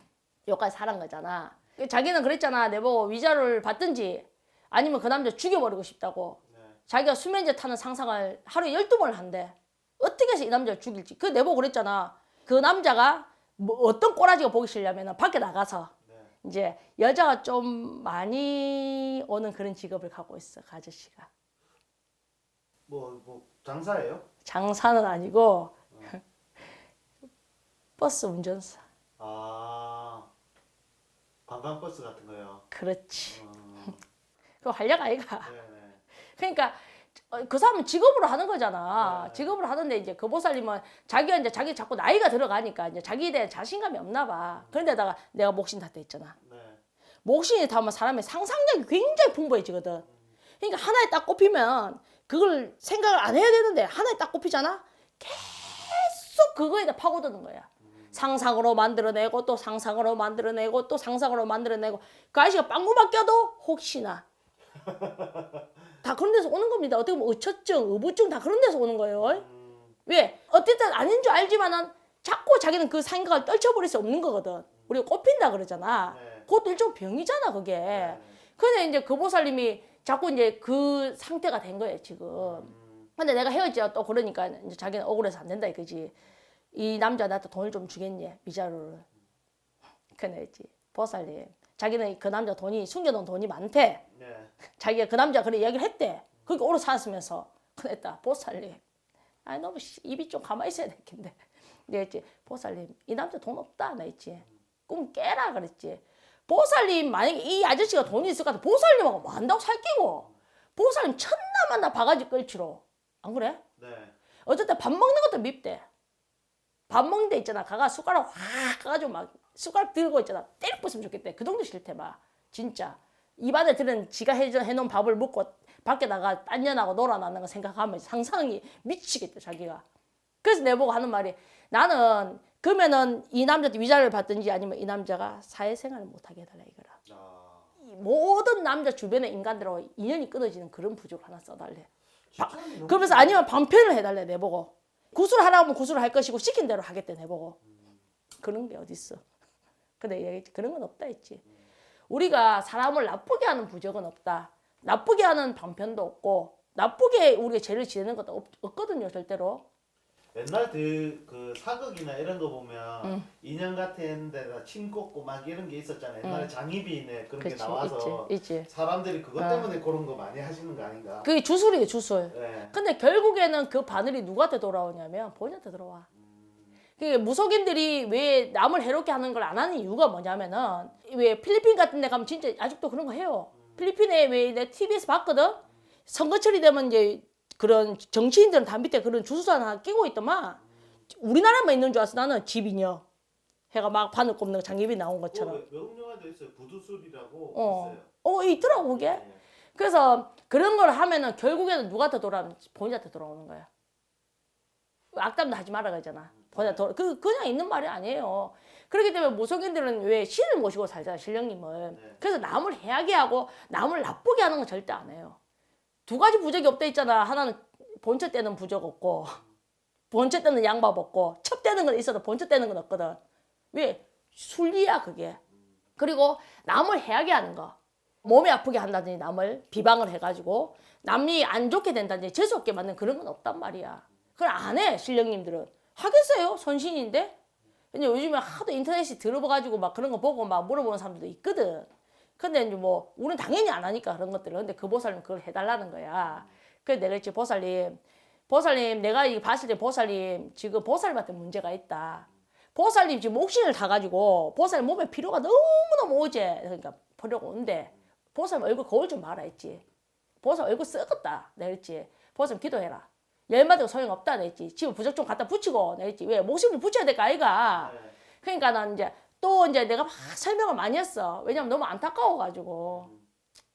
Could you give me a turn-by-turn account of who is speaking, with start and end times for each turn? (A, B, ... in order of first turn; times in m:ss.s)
0:00.5-0:15.9 A
0:06.5-0:06.8 B
0:16.4-0:21.3 A
0:22.9-0:24.2 B
0:24.4-0:26.2 A
0:28.0-0:28.8 A
0:29.2-0:30.3 B
0:31.5-0:32.6 B
0:32.7-0:33.4 A
0:33.3-0:34.0 B
0:34.6-0:35.5 A
0:35.4-0:36.0 B
0:36.3-0:46.4 A
0:38.9-0:39.5 B
0:44.5-0:44.8 B
0:46.4-0:46.8 B
0:47.2-0:50.0 A
0:50.6-1:04.2 A
0:57.9-0:58.2 B
1:04.8-1:05.6 B
1:06.0-1:09.4 A
1:09.2-1:10.0 B
1:10.0-1:26.1 A
1:16.1-1:16.5 B
1:17.9-1:18.4 B
1:22.4-1:23.1 B
1:26.7-1:29.0 A
1:30.2-1:34.0 A
1:34.1-1:34.5 B
1:34.7-1:38.8 A
1:39.4-1:53.6 A
1:53.8-1:54.1 B
1:54.4-1:55.8 A
1:56.9-2:09.8 A
2:10.4-2:17.0 A
2:17.0-2:17.7 B
2:17.8-2:27.6 A
2:22.3-2:23.5 B
2:28.4-2:29.2 A
2:30.0-2:31.4 A
2:32.1-2:39.6 A
2:40.3-2:51.3 B
2:46.2-2:46.5 A
2:47.4-2:48.7 A
2:49.4-2:49.7 A
2:51.2-2:56.1 A
2:52.3-2:52.8 B
2:56.1-2:56.8 B
2:57.0-3:10.6 A
3:03.6-3:03.9 B
3:11.1-3:13.0 A
3:13.7-3:15.6 A
3:15.3-3:19.4 B
3:17.5-3:19.2 A
3:19.7-3:23.7 A
3:25.1-3:35.4 A
3:26.3-3:26.8 B
3:36.1-3:39.4 A
3:40.1-3:43.2 A
3:43.7-3:45.4 A
3:46.0-3:57.4 A
3:57.9-4:01.9 A
4:02.4-4:19.8 A
4:06.2-4:06.5 B
4:20.4-4:33.1 A
4:27.7-4:28.2 B
4:32.9-4:33.2 B